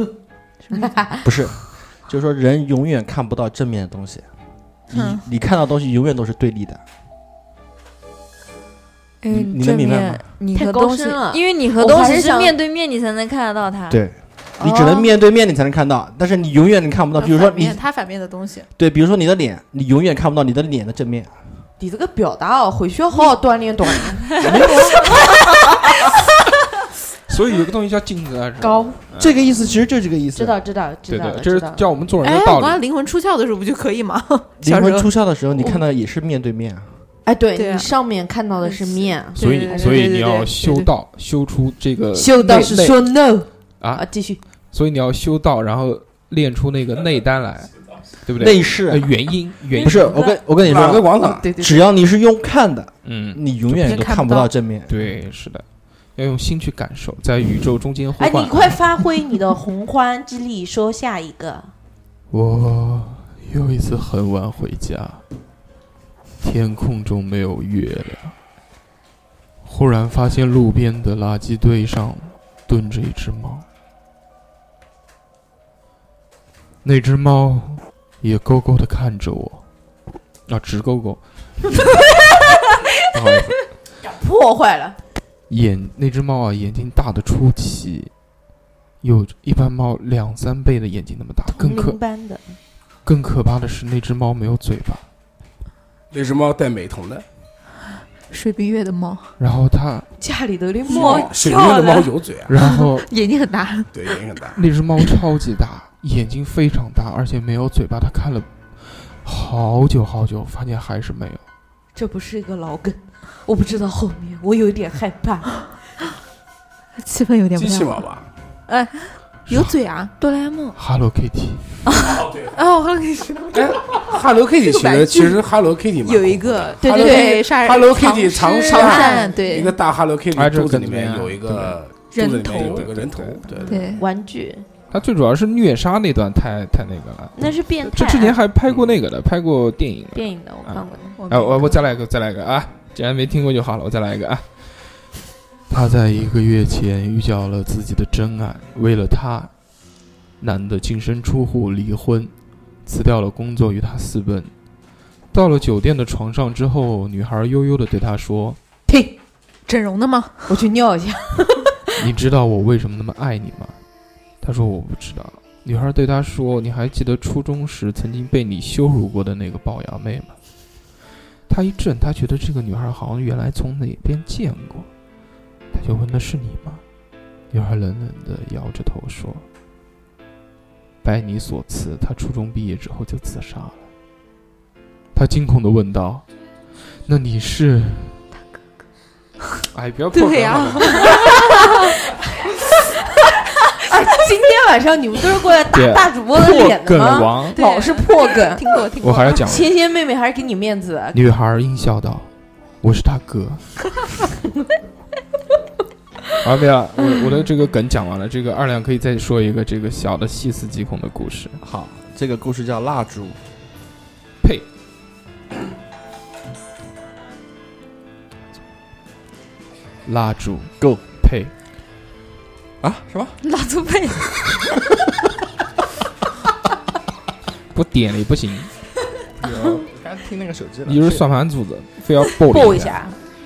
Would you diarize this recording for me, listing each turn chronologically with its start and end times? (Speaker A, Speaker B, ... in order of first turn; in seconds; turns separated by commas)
Speaker A: 0.7-1.2, Speaker B: 1.2-4.3, Speaker B: 4.9-6.8, Speaker C: 4.9-5.2, Speaker D: 9.2-14.0, Speaker B: 9.3-10.2, Speaker A: 10.5-12.6, Speaker B: 13.9-17.8, Speaker C: 14.6-15.1, Speaker C: 17.2-18.7, Speaker B: 18.8-21.3, Speaker A: 21.8-24.4, Speaker B: 24.4-25.3, Speaker E: 27.3-29.5, Speaker A: 28.6-29.0, Speaker B: 29.2-30.6, Speaker A: 30.4-31.9, Speaker E: 31.1-32.8, Speaker C: 32.2-35.1, Speaker B: 34.6-36.9, Speaker A: 37.3-40.4, Speaker C: 37.5-37.9, Speaker C: 38.6-40.9, Speaker E: 39.4-43.1, Speaker A: 42.1-44.4, Speaker C: 42.3-42.8, Speaker E: 43.8-44.1, Speaker E: 44.7-50.2, Speaker B: 48.4-49.2, Speaker A: 49.7-51.9, Speaker B: 49.8-54.9, Speaker F: 50.6-51.4, Speaker E: 53.0-54.1, Speaker C: 53.7-54.5, Speaker E: 54.9-55.6, Speaker E: 56.2-59.0, Speaker A: 58.2-61.7, Speaker E: 62.3-65.2, Speaker E: 66.4-68.3, Speaker E: 69.6-73.7, Speaker E: 76.8-79.6, Speaker E: 80.5-81.9, Speaker E: 83.1-83.7, Speaker A: 84.0-85.0, Speaker E: 85.5-88.1, Speaker E: 89.0-92.0, Speaker A: 91.5-92.6, Speaker E: 93.0-95.0, Speaker F: 96.1-97.2, Speaker C: 98.3-99.3, Speaker E: 99.4-100.1, Speaker A: 100.2-102.1, Speaker C: 100.9-101.8, Speaker F: 100.9-102.5, Speaker E: 102.5-103.1, Speaker C: 102.6-104.2, Speaker F: 103.9-104.6, Speaker E: 104.5-111.4, Speaker A: 112.0-115.7, Speaker C: 117.0-118.0, Speaker F: 117.5-118.3, Speaker C: 118.7-120.1, Speaker D: 120.2-120.7, Speaker E: 120.8-121.8, Speaker C: 122.0-125.4, Speaker F: 123.5-133.9, Speaker C: 126.0-129.8, Speaker A: 126.8-127.6, Speaker A: 128.7-129.7, Speaker E: 130.3-131.8, Speaker C: 132.1-132.9, Speaker E: 132.5-133.4, Speaker C: 133.6-134.0, Speaker A: 133.7-134.7, Speaker E: 134.9-145.1, Speaker A: 137.4-138.4, Speaker A: 140.1-141.2, Speaker C: 141.2-141.8, Speaker E: 145.7-149.5, Speaker E: 150.4-152.3, Speaker E: 152.8-154.5, Speaker E: 155.3-158.6, Speaker A: 158.9-159.1, Speaker C: 159.7-160.6, Speaker A: 160.5-161.7, Speaker E: 162.0-163.8, Speaker E: 164.4-170.3, Speaker E: 171.5-174.9, Speaker E: 175.7-176.8, Speaker E: 177.5-179.4, Speaker E: 181.0-183.8, Speaker E: 185.1-186.2, Speaker E: 187.0-188.2, Speaker E: 189.7-191.3, Speaker C: 190.1-191.9, Speaker A: 190.9-192.2, Speaker A: 193.7-198.8, Speaker E: 195.7-197.6, Speaker C: 197.5-199.6, Speaker E: 199.0-199.7, Speaker A: 199.3-201.2, Speaker E: 201.1-202.3, Speaker E: 202.8-203.9, Speaker E: 206.4-211.6, Speaker B: 211.6-213.4, Speaker E: 220.1-221.5, Speaker B: 222.8-223.4, Speaker D: 223.4-224.3, Speaker E: 227.7-228.7, Speaker B: 229.4-231.3, Speaker E: 230.9-233.0, Speaker A: 232.5-233.2